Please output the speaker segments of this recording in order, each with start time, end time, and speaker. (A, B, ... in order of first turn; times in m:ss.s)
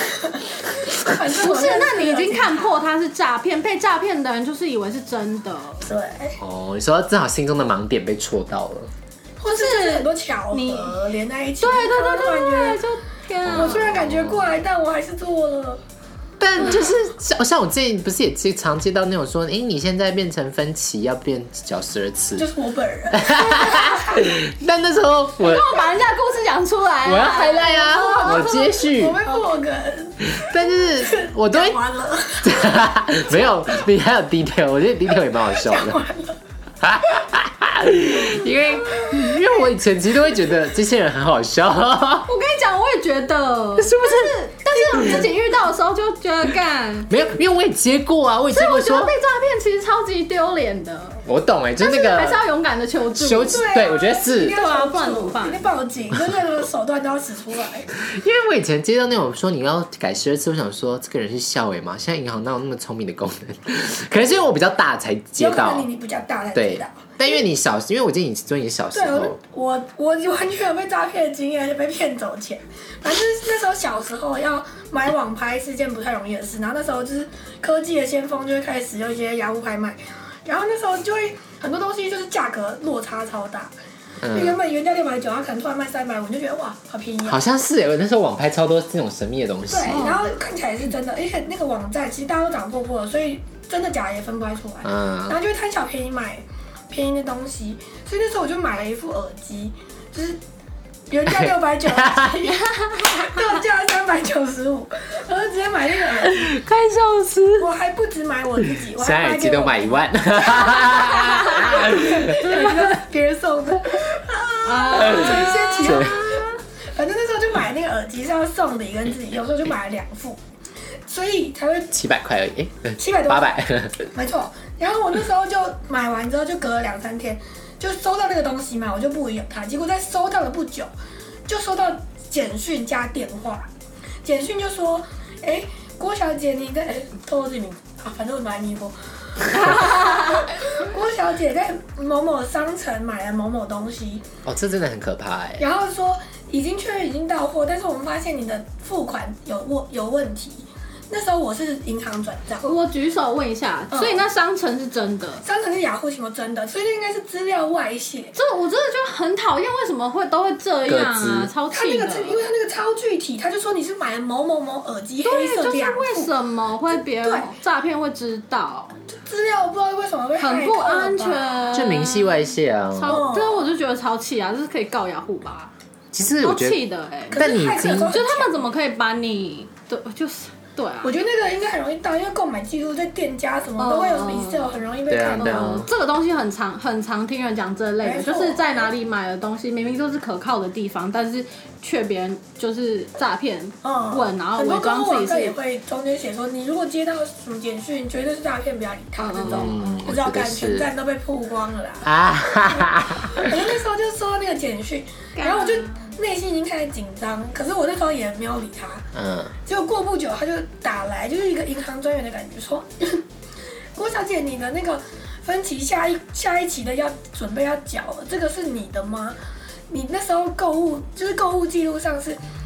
0:00.2-0:02.8 A
0:01.2-0:05.9 B
0:05.8-0:06.4 A
0:06.4-0:08.9 C
0:09.4-0:12.8 A
0:09.5-0:11.0 B
0:11.6-0:13.9 B
0:13.4-0:14.5 C
0:13.4-0:15.8 A
0:16.4-0:22.5 C
0:22.4-0:24.3 A
0:23.1-0:25.8 C
0:25.4-0:28.7 B
0:27.0-0:29.2 C
0:27.6-0:33.8 A
0:30.2-0:31.8 C
0:32.4-0:36.0 C
0:35.5-0:36.4 A
0:36.8-0:42.3 C
0:39.0-0:39.7 A
0:42.3-0:47.2 B
0:43.8-0:44.4 C
0:44.7-0:45.2 A
0:44.9-0:45.3 C
0:47.1-0:49.1 C
0:48.5-0:51.2 B
0:51.2-0:52.4 C
0:51.8-0:53.6 B
0:53.1-0:54.6 C
0:53.4-0:57.9 A
0:54.5-0:55.6 B
0:57.9-1:05.9 C
1:05.4-1:07.4 A
1:06.5-1:09.4 C
1:08.9-1:27.4 A
1:24.2-1:24.6 C
1:27.2-1:30.2 C
1:29.7-1:40.4 A
1:29.9-1:30.2 B
1:34.8-1:35.4 C
1:41.1-1:46.5 A
1:41.2-1:42.4 C
1:42.6-1:43.3 B
1:46.5-1:46.8 C
1:46.6-1:47.6 B
1:47.6-2:00.4 A
1:49.0-1:52.5 C
1:54.6-1:56.6 B
1:55.0-1:56.2 C
2:01.1-2:01.9 A
2:01.9-2:04.1 C
2:03.0-2:03.5 A
2:04.1-2:10.9 A
2:11.5-2:13.7 A
2:14.2-2:24.2 A
2:19.8-2:20.4 B
2:24.4-2:25.7 C
2:25.6-2:32.7 A
2:32.6-2:35.4 B
2:33.9-2:34.2 A
2:35.4-2:38.4 A
2:38.4-2:42.4 B
2:40.9-2:41.5 C
2:41.7-2:46.3 A
2:45.2-2:49.0 B
2:47.2-2:47.5 A
2:49.1-2:51.6 A
2:50.4-2:52.4 B
2:51.7-2:53.2 C
2:53.0-2:55.7 B
2:53.1-2:53.7 A
2:56.1-2:56.8 C
2:56.4-2:57.4 B
2:57.3-2:58.6 A
2:57.4-2:58.2 C
2:58.1-3:01.1 B
3:01.0-3:05.8 A
3:03.8-3:04.7 B
3:05.1-3:05.9 C
3:05.4-3:15.6 B
3:08.0-3:08.9 A
3:13.8-3:22.1 A
3:19.2-3:19.7 B
3:19.5-3:20.9 C
3:22.0-3:23.6 C
3:22.7-3:29.1 A
3:25.4-3:26.1 B
3:29.1-3:29.5 C
3:29.6-3:33.2 A
3:33.9-3:39.4 A
3:39.9-3:42.4 A